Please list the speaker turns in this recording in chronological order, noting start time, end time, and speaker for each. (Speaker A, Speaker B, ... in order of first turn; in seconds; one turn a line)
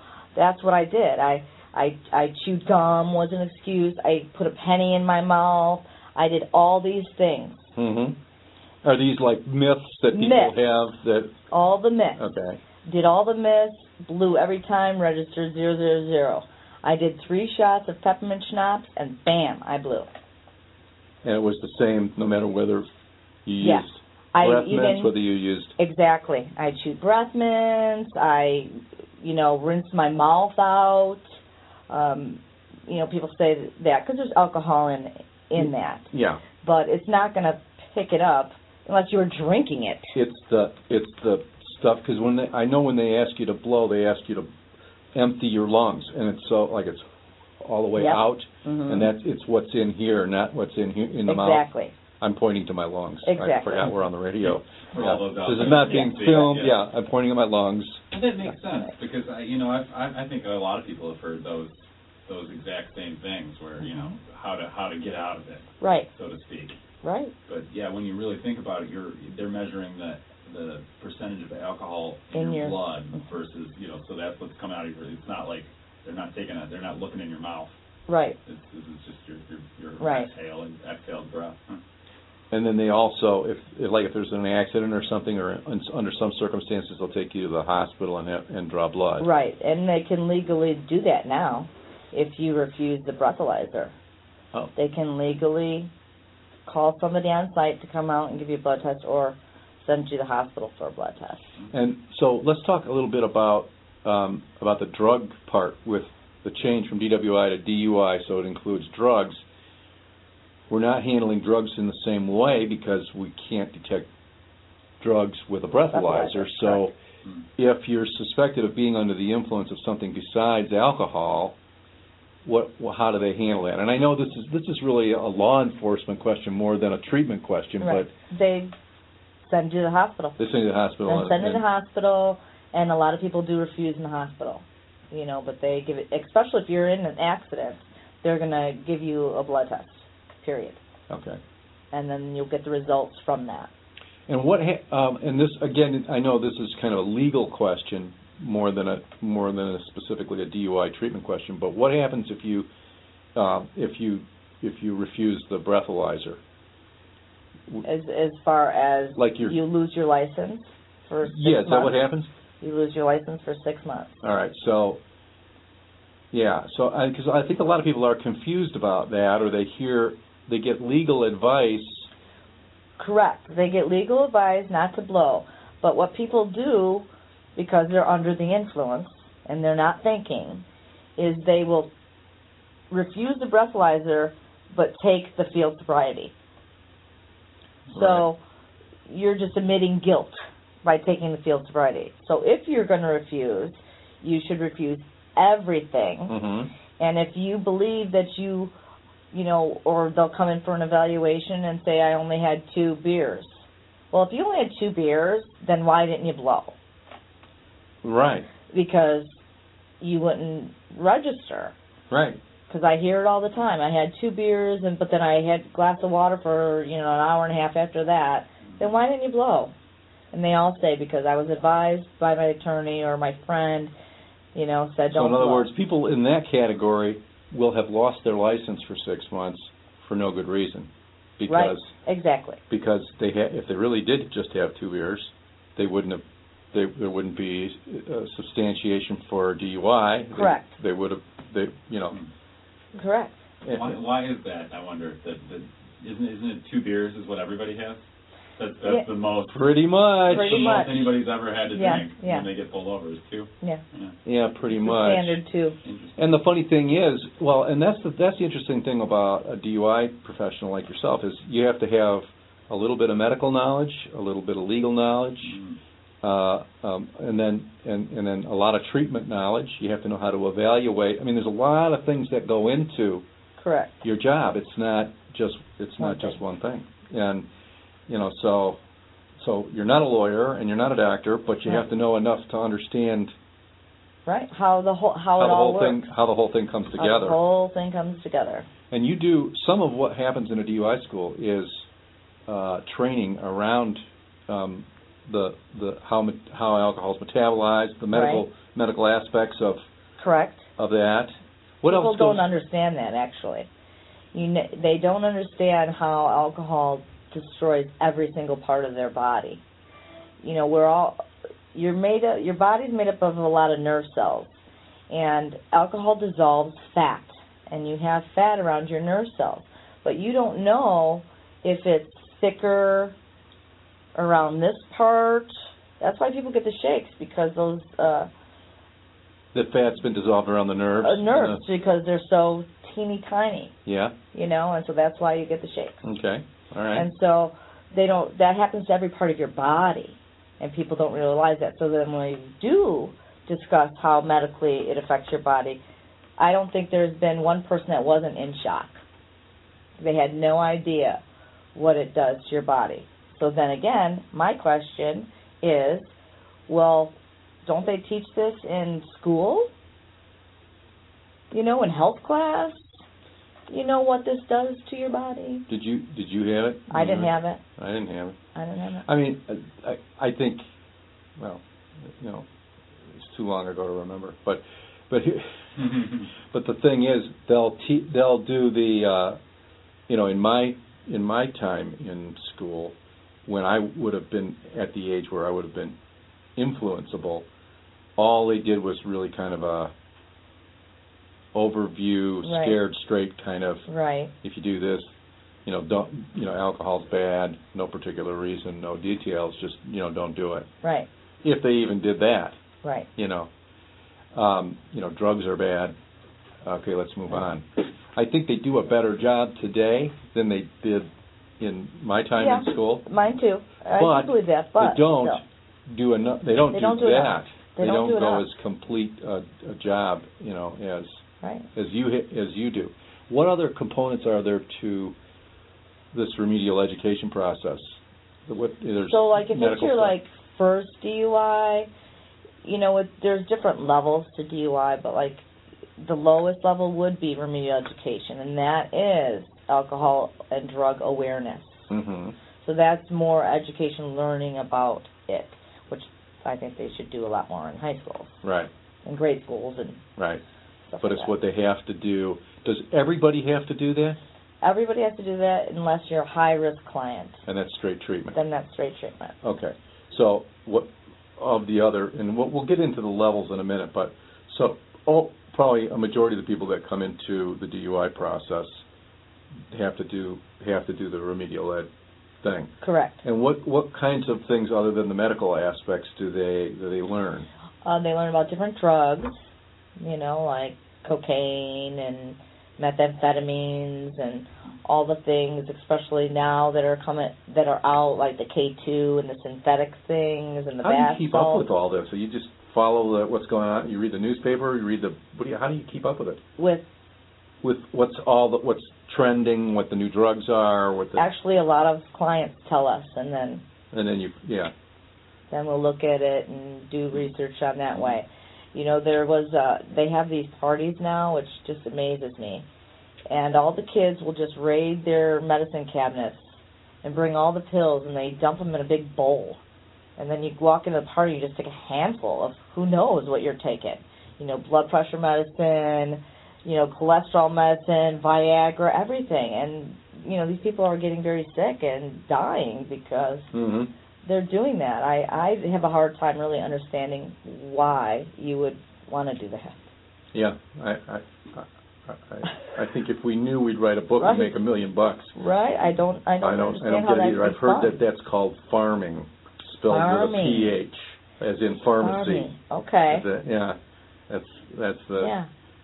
Speaker A: 0.3-7.7
Speaker B: 7.8-8.2
Speaker B: 8.8-11.3
Speaker A: 10.1-10.6
Speaker A: 11.5-20.1
Speaker B: 12.2-12.6
Speaker B: 21.2-22.9
Speaker B: 23.4-25.7
Speaker A: 23.6-25.1
Speaker A: 25.8-31.3
Speaker A: 31.9-40.1
Speaker B: 35.6-36.4
Speaker B: 40.1-44.5
Speaker B: 45.1-47.0
Speaker B: 47.6-51.7
Speaker A: 48.0-49.1
Speaker A: 51.3-51.9
Speaker B: 52.2-58.0
Speaker A: 53.2-53.9
Speaker C: 54.5-56.7
Speaker A: 55.8-56.5
Speaker C: 58.1-66.8
Speaker A: 63.9-64.1
Speaker A: 65.8-66.1
Speaker A: 67.0-67.3
Speaker C: 67.5-77.7
Speaker A: 72.3-72.8
Speaker A: 78.1-78.4
Speaker C: 78.5-81.8
Speaker A: 80.0-80.3
Speaker B: 82.5-89.3
Speaker A: 89.2-93.9
Speaker A: 94.8-95.9
Speaker A: 96.7-101.6
Speaker B: 101.7-109.4
Speaker B: 110.7-114.1
Speaker B: 115.0-116.9
Speaker A: 115.9-116.9
Speaker B: 117.6-121.6
Speaker B: 122.5-128.1
Speaker A: 127.8-128.7
Speaker A: 129.4-130.4
Speaker B: 130.4-131.6
Speaker A: 131.1-140.8
Speaker B: 141.1-141.4
Speaker A: 141.9-143.7
Speaker B: 144.3-152.7
Speaker B: 153.3-156.4
Speaker A: 157.8-162.1
Speaker B: 159.2-159.6
Speaker B: 161.2-162.3
Speaker A: 162.6-164.2
Speaker B: 164.2-165.0
Speaker B: 166.3-172.1
Speaker A: 173.0-180.7
Speaker A: 181.2-181.9
Speaker A: 182.9-186.3
Speaker B: 187.9-188.2
Speaker A: 187.9-188.4
Speaker A: 189.1-196.4
Speaker B: 196.3-196.7
Speaker A: 197.0-198.7
Speaker A: 199.3-206.8
Speaker B: 208.0-208.5
Speaker A: 208.7-209.4
Speaker A: 210.0-211.8
Speaker B: 212.1-212.4
Speaker A: 212.7-219.7
Speaker A: 220.3-223.9
Speaker A: 224.6-225.7
Speaker B: 225.1-231.9
Speaker A: 231.5-232.6
Speaker B: 232.7-242.2
Speaker A: 240.3-240.8
Speaker A: 242.9-243.4
Speaker B: 243.6-244.0
Speaker C: 243.7-248.1
Speaker C: 248.6-249.6
Speaker B: 249.5-251.0
Speaker C: 250.3-254.2
Speaker A: 250.3-251.1
Speaker A: 251.7-252.5
Speaker B: 254.2-255.4
Speaker A: 254.7-255.8
Speaker C: 255.8-256.2
Speaker B: 256.2-265.6
Speaker C: 265.5-265.8
Speaker B: 266.2-273.2
Speaker A: 273.6-273.9
Speaker B: 274.0-277.4
Speaker A: 276.0-276.4
Speaker B: 278.1-278.8
Speaker B: 279.4-283.3
Speaker A: 284.3-286.1
Speaker B: 285.4-287.4
Speaker A: 287.0-288.7
Speaker B: 288.9-291.9
Speaker B: 292.5-299.8
Speaker A: 298.1-298.4
Speaker A: 300.2-300.7
Speaker B: 300.8-302.5
Speaker A: 301.9-303.7
Speaker A: 304.3-309.6
Speaker A: 310.4-323.1
Speaker A: 324.1-328.3
Speaker B: 329.5-331.6
Speaker A: 331.0-333.7
Speaker B: 333.9-334.1
Speaker A: 334.3-336.1
Speaker B: 336.0-337.1
Speaker A: 336.9-345.8
Speaker A: 346.4-349.0
Speaker A: 350.0-351.2
Speaker A: 351.8-356.1
Speaker A: 356.7-359.7
Speaker A: 361.5-363.0
Speaker A: 363.7-365.7
Speaker B: 365.7-368.4
Speaker A: 366.9-367.6
Speaker A: 368.6-369.1
Speaker B: 369.1-370.6
Speaker B: 371.4-372.5
Speaker B: 373.1-379.4
Speaker B: 380.1-382.9
Speaker B: 383.5-385.9
Speaker B: 386.6-387.5
Speaker B: 388.2-389.9
Speaker B: 391.5-393.9
Speaker A: 392.4-392.8
Speaker A: 393.9-394.3
Speaker B: 394.4-395.1
Speaker B: 395.6-400.7
Speaker A: 400.8-401.1
Speaker B: 401.4-402.6
Speaker B: 403.2-403.5
Speaker B: 404.3-405.9
Speaker B: 406.6-411.1
Speaker B: 411.6-413.0
Speaker A: 412.4-415.4
Speaker B: 414.0-421.2
Speaker A: 416.7-418.5
Speaker A: 421.4-421.7
Speaker B: 421.8-425.1
Speaker B: 426.1-430.1
Speaker A: 429.1-431.9
Speaker A: 432.6-435.4
Speaker A: 436.0-441.9
Speaker B: 441.9-442.4
Speaker A: 442.6-448.4
Speaker B: 448.4-448.7
Speaker A: 449.1-450.0
Speaker B: 450.2-450.4
Speaker A: 450.9-451.3
Speaker B: 451.0-454.2
Speaker A: 454.6-457.4
Speaker B: 457.5-458.4
Speaker A: 458.4-459.4
Speaker B: 459.4-468.8
Speaker B: 469.7-471.9
Speaker B: 472.4-477.5
Speaker A: 472.8-473.2
Speaker A: 477.8-491.7
Speaker B: 490.8-496.4
Speaker A: 496.6-496.9
Speaker B: 497.6-501.2
Speaker A: 501.2-503.6
Speaker B: 503.9-504.7
Speaker A: 505.5-512.6
Speaker A: 513.3-519.6
Speaker A: 520.2-533.5
Speaker B: 533.5-533.9
Speaker A: 534.2-539.9
Speaker B: 540.3-545.3
Speaker A: 544.2-544.6
Speaker A: 545.3-548.0
Speaker B: 546.4-552.5
Speaker A: 549.9-550.7
Speaker A: 552.0-553.2
Speaker B: 553.1-553.8
Speaker B: 554.3-555.3
Speaker A: 555.2-555.5